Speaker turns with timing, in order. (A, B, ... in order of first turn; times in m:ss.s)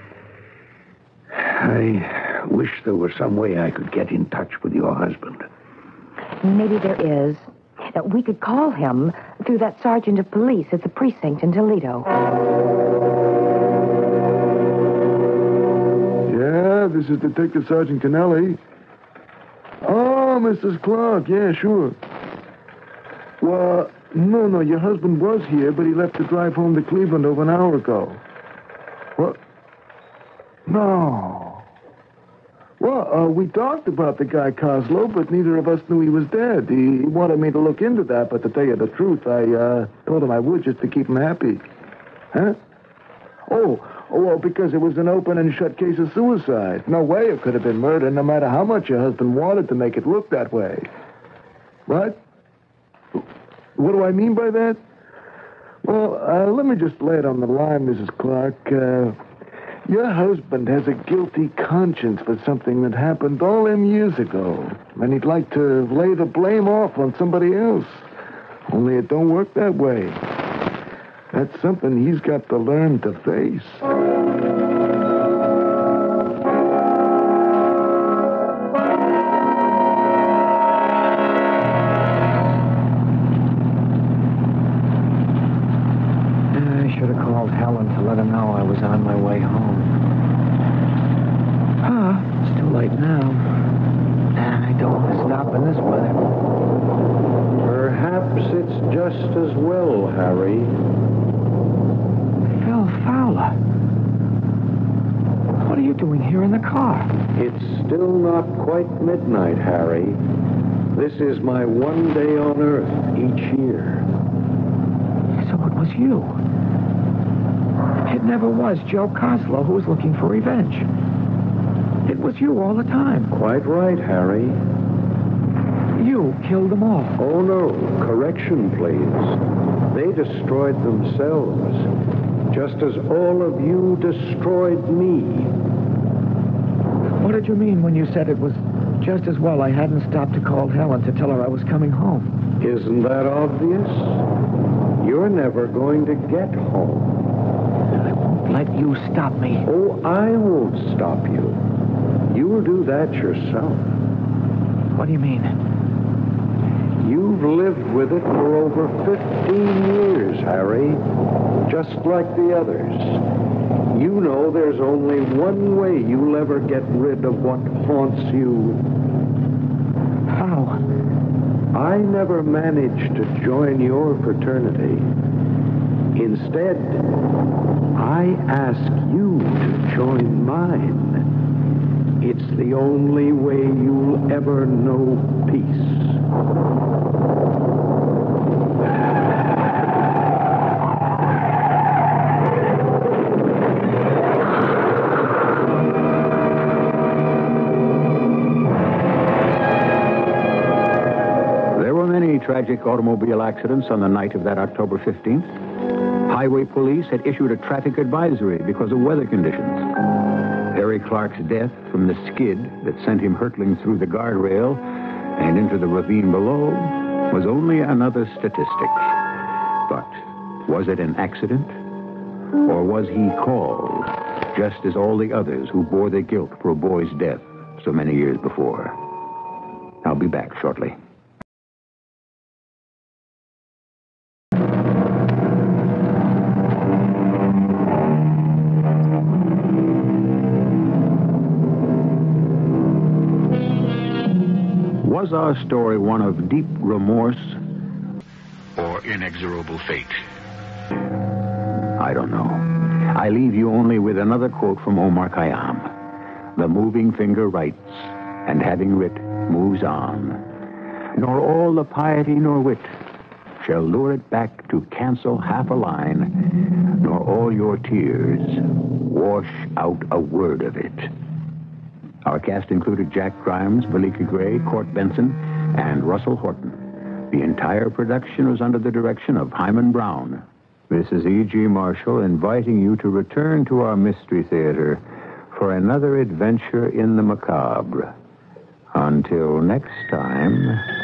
0:01.3-0:05.5 A
0:06.4-0:12.1 B
0:16.3-0:18.6 C
0:19.8-0:22.0 C
0:23.4-0:28.2 C
0:30.7-0:31.6 C
0:32.8-0:41.6 C
0:43.5-0:50.9 C
0:51.9-0:52.2 C
0:53.8-0:54.8 C
0:55.8-0:59.2 C
0:59.9-1:08.1 C
1:08.7-1:10.2 C
1:11.3-1:13.9 C
1:26.5-1:30.0 D
1:31.8-1:33.7 D
1:34.3-1:36.2 D
1:37.6-1:40.8 A
1:42.6-1:43.6 D
1:45.6-1:47.2 D
1:47.3-1:50.2 A
1:50.9-1:54.1 A
1:55.4-1:56.4 D
1:58.1-2:00.9 D
2:02.0-2:03.3 D
2:03.3-2:04.6 A
2:06.0-2:07.2 D
2:07.2-2:11.9 A
2:12.5-2:15.6 A
2:17.2-2:22.4 D
2:22.6-2:24.3 A
2:25.0-2:27.2 A
2:28.0-2:29.7 D
2:29.7-2:31.6 A
2:32.3-2:34.0 A
2:34.9-2:35.6 D
2:37.0-2:41.1 A
2:41.6-2:43.2 A
2:43.9-2:48.9 A
2:50.3-2:50.8 D
2:51.7-2:55.1 A
2:56.1-2:57.2 A
2:57.9-3:01.3 A
3:02.2-3:06.2 A
3:21.7-3:25.5 E
3:26.3-3:29.9 E
3:30.7-3:39.2 E
3:39.9-3:41.8 E
3:42.6-3:49.0 E
3:50.0-3:51.0 E
4:05.0-4:07.6 E
4:08.8-4:10.2 E
4:12.0-4:15.9 E
4:16.6-4:20.4 E
4:21.2-4:22.9 E
4:23.6-4:26.4 E
4:27.0-4:31.1 E
4:32.2-4:48.1 E
4:48.9-4:50.9 E